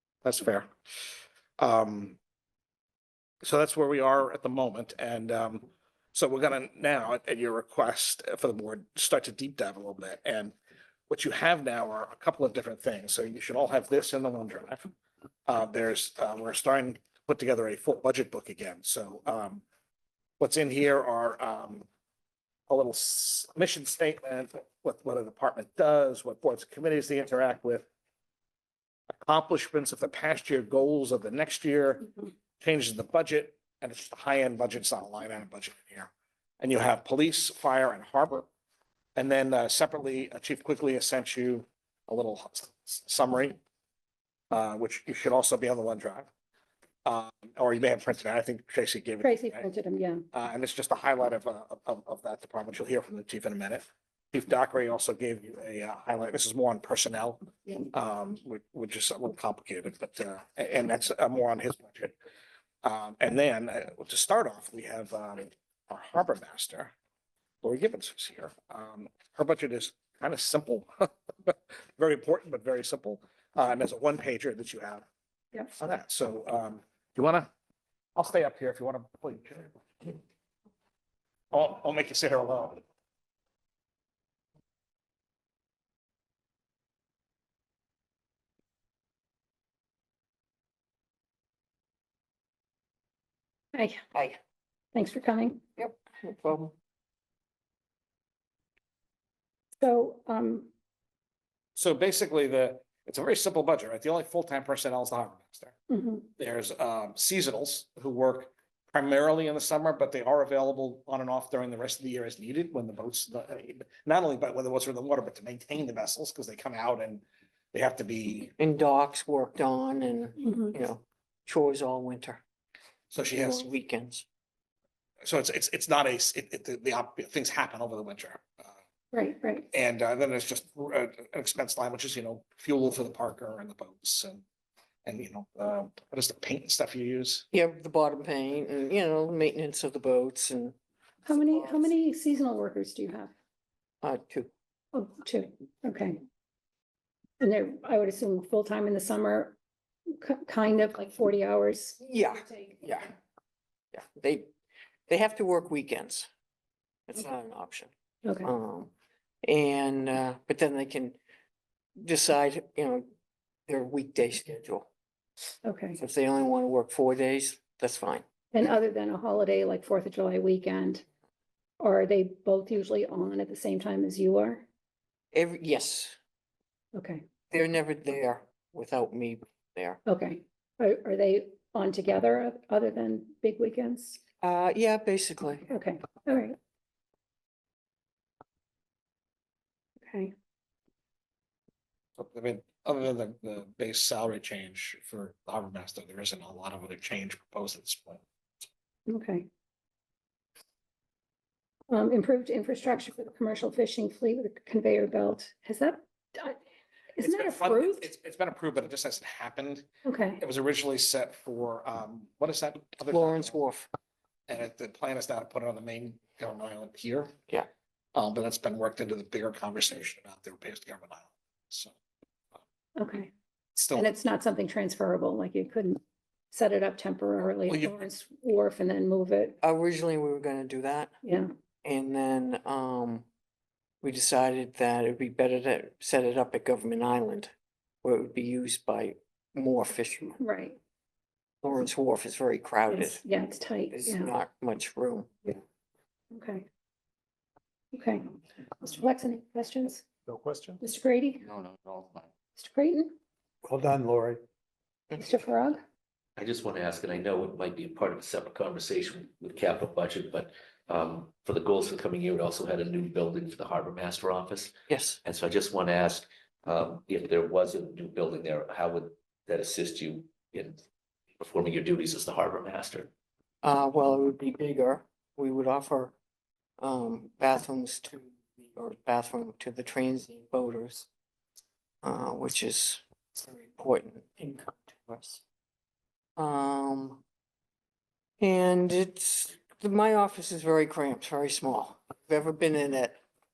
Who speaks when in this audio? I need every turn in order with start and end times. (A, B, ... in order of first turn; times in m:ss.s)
0:00.2-0:00.7 A
0:01.6-0:02.2 A
0:03.4-0:10.5 A
0:11.1-0:14.9 A
0:15.5-0:19.6 A
0:20.4-0:21.8 A
0:22.7-0:27.8 A
0:29.1-0:36.1 A
0:36.6-0:38.4 A
0:39.2-0:43.6 A
0:44.5-0:46.3 A
0:47.0-0:49.7 A
0:49.2-0:50.2 B
0:50.3-1:02.2 A
1:02.8-1:06.9 A
1:07.6-1:15.0 A
1:15.6-1:17.5 A
1:18.2-1:20.2 A
1:21.5-1:22.8 A
1:33.7-1:34.0 B
1:34.9-1:35.6 B
1:35.8-1:36.7 C
1:39.8-1:40.7 B
1:41.8-1:45.7 A
1:45.9-1:46.3 B
1:46.4-1:58.5 A
1:58.6-2:02.4 C
2:00.4-2:00.7 B
2:03.1-2:03.6 A
2:03.3-2:04.2 C
2:05.2-2:08.7 A
2:09.1-2:09.7 B
2:09.7-2:14.4 A
2:15.0-2:17.4 A
2:17.5-2:20.7 C
2:21.2-2:23.3 B
2:21.5-2:21.9 C
2:24.0-2:24.5 C
2:24.9-2:26.2 B
2:27.4-2:29.6 B
2:30.1-2:32.0 B
2:32.0-2:33.1 C
2:33.9-2:34.5 C
2:35.1-2:36.3 C
2:37.1-2:37.9 C
2:38.2-2:38.5 B
2:38.4-2:38.9 C
2:39.4-2:41.2 C
2:42.0-2:43.1 C
2:43.7-2:44.9 C
2:45.6-2:46.0 B
2:46.0-2:48.2 C
2:48.5-2:51.0 B
2:51.8-2:54.7 B
2:55.3-2:56.2 C
2:56.9-2:57.2 B
2:57.5-3:00.0 C
3:00.0-3:04.2 B
3:04.4-3:05.7 C
3:05.7-3:06.6 B
3:10.0-3:10.3 B
3:12.2-3:18.2 A
3:19.1-3:19.5 B
3:21.9-3:26.6 B
3:27.1-3:28.1 B
3:27.2-3:29.8 A
3:30.0-3:30.4 B
3:30.4-3:33.6 A
3:33.1-3:33.9 C
3:34.5-3:37.4 A
3:38.1-3:41.9 A
3:43.0-3:43.3 B
3:43.7-3:44.1 A
3:44.0-3:46.0 B
3:46.5-3:49.6 B
3:49.6-3:51.1 C
3:51.2-3:51.5 B
3:51.8-3:53.2 C
3:54.0-3:57.5 C
3:58.0-4:00.4 C
4:00.4-4:00.8 B
4:01.6-4:03.2 C
4:02.9-4:04.3 B
4:03.9-4:05.3 C
4:06.3-4:06.6 B
4:07.9-4:08.2 B
4:08.8-4:10.0 B
4:10.3-4:10.8 D
4:10.8-4:11.5 B
4:11.5-4:12.2 D
4:12.6-4:13.2 B
4:13.6-4:14.4 D
4:15.2-4:15.8 B
4:16.4-4:24.7 E
4:24.9-4:25.2 C
4:25.2-4:30.8 E
4:31.4-4:33.1 E
4:33.6-4:36.1 C
4:36.8-4:41.1 C
4:42.0-4:45.4 C
4:46.4-4:47.2 C
4:48.4-4:53.2 C